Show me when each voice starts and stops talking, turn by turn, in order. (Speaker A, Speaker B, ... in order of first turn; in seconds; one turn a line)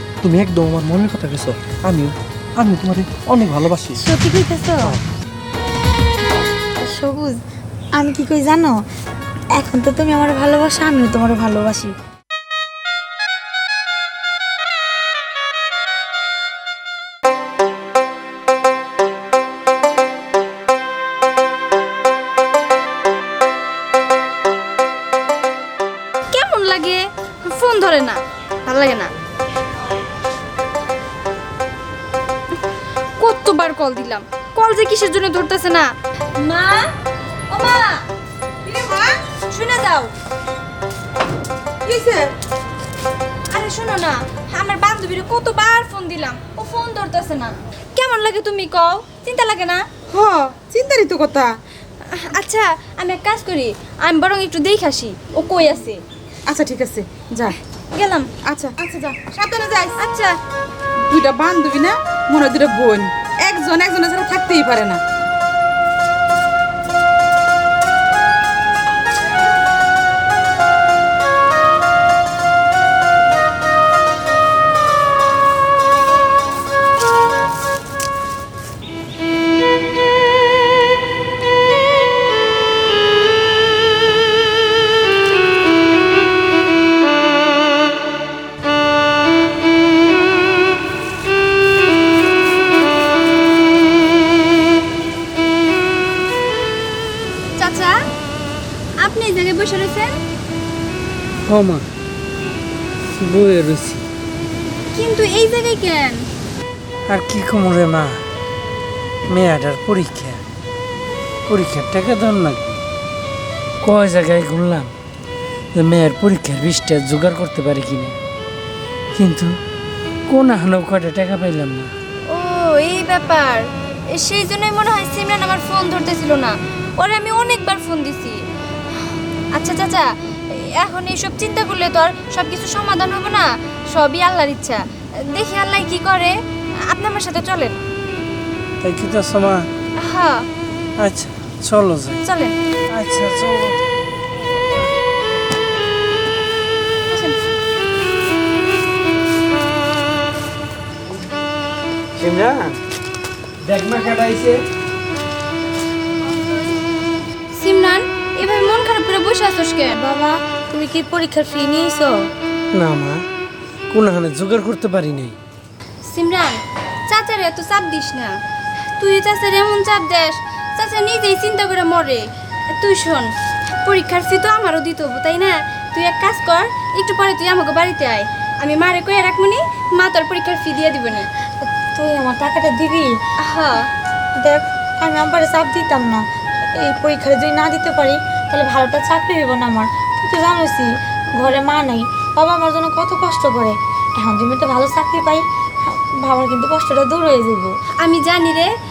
Speaker A: 0.2-4.0
Speaker B: 4.0-4.9
Speaker B: 6.8-7.4
Speaker B: 8.0-8.8
Speaker B: 9.6-11.9
Speaker C: 26.3-29.1
Speaker C: 33.2-36.9
Speaker C: 37.5-38.0
Speaker D: 38.6-39.1
Speaker C: 39.3-40.1
Speaker D: 41.8-42.3
Speaker C: 43.5-49.9
Speaker D: 50.1-51.5
Speaker C: 52.1-56.0
Speaker D: 56.5-57.5
Speaker C: 57.9-58.3
Speaker D: 58.4-60.0
Speaker C: 60.0-60.4
Speaker D: 61.1-65.0
Speaker C: 97.6-97.9
Speaker C: 99.0-100.2
Speaker E: 101.5-101.9
Speaker E: 103.2-104.0
Speaker C: 104.9-106.2
Speaker E: 107.1-108.2
Speaker E: 109.3-110.4
Speaker E: 111.5-112.8
Speaker E: 113.8-114.9
Speaker E: 115.7-118.2
Speaker E: 119.1-119.5
Speaker E: 120.3-121.9
Speaker C: 122.3-128.4
Speaker C: 128.9-137.8
Speaker E: 138.8-139.7
Speaker C: 140.0-140.4
Speaker E: 141.0-142.2
Speaker C: 142.2-142.6
Speaker E: 142.9-143.8
Speaker C: 147.1-147.4
Speaker E: 152.2-152.8
Speaker E: 153.7-154.6
Speaker C: 157.5-159.9
Speaker B: 160.0-162.1
Speaker E: 162.7-163.2
Speaker E: 163.9-165.4
Speaker C: 166.1-168.3
Speaker C: 169.0-173.3
Speaker C: 173.8-181.3
Speaker B: 181.7-183.1
Speaker C: 183.4-183.9
Speaker B: 184.3-197.8
Speaker C: 198.0-198.7